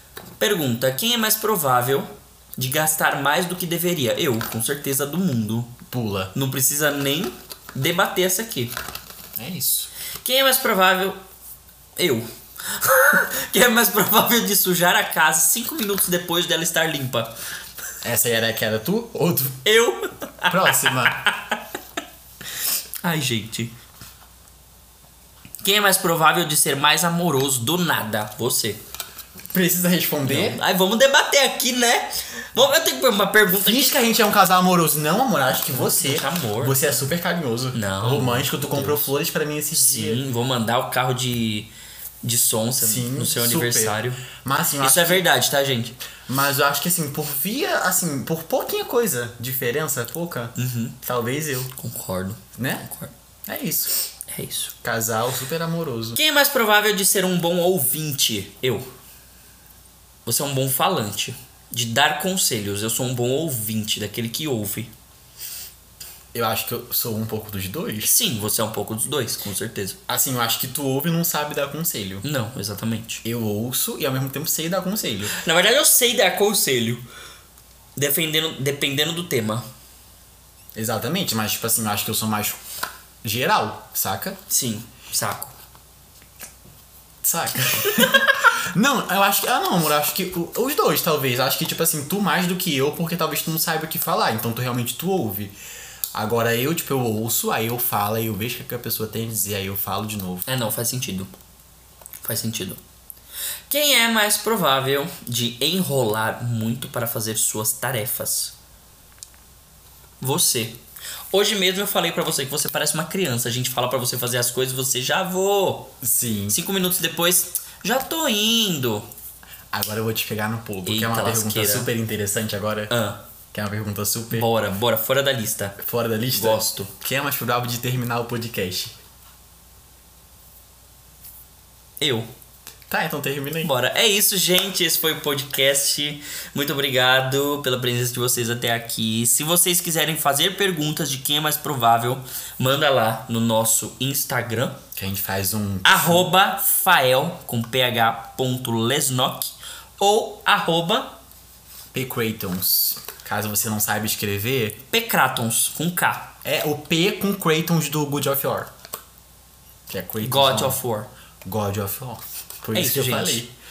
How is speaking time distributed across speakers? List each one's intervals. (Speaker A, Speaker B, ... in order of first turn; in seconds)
Speaker A: 0.4-5.8, 6.3-8.8, 10.2-11.2, 12.0-17.4, 19.6-21.6, 23.0-23.7, 25.6-28.8, 30.2-34.0, 35.7-36.9, 37.7-39.1, 39.7-41.7, 42.2-44.2, 44.8-46.0, 50.6-51.0, 51.8-53.1, 54.3-54.7, 56.2-58.9, 60.3-64.9, 68.0-70.0, 72.2-73.2, 75.3-77.0, 78.0-79.7, 84.5-85.6, 87.9-88.3, 100.5-101.3, 102.2-102.8, 103.7-108.5, 110.2-115.9, 116.5-119.1, 120.8-121.9, 122.9-123.2, 124.3-125.8, 126.3-126.9, 132.0-132.3, 133.6-144.8, 145.8-151.2, 154.9-156.3, 160.2-161.1, 162.7-163.4
Speaker B: 5.9-6.3, 9.4-9.9, 18.0-19.6, 20.5-21.2, 29.5-30.6, 33.5-40.2, 42.8-45.2, 46.3-51.7, 52.6-52.9, 53.5-53.9, 54.8-56.2, 66.3-68.1, 70.1-72.2, 73.2-75.4, 80.8-82.6, 83.2-84.4, 87.2-95.6, 96.1-100.5, 116.0-116.6, 119.7-122.9, 123.5-124.5, 125.8-129.0, 132.9-133.7, 145.0-146.3, 151.9-154.8, 156.4-158.7, 159.9-160.8, 161.4-163.5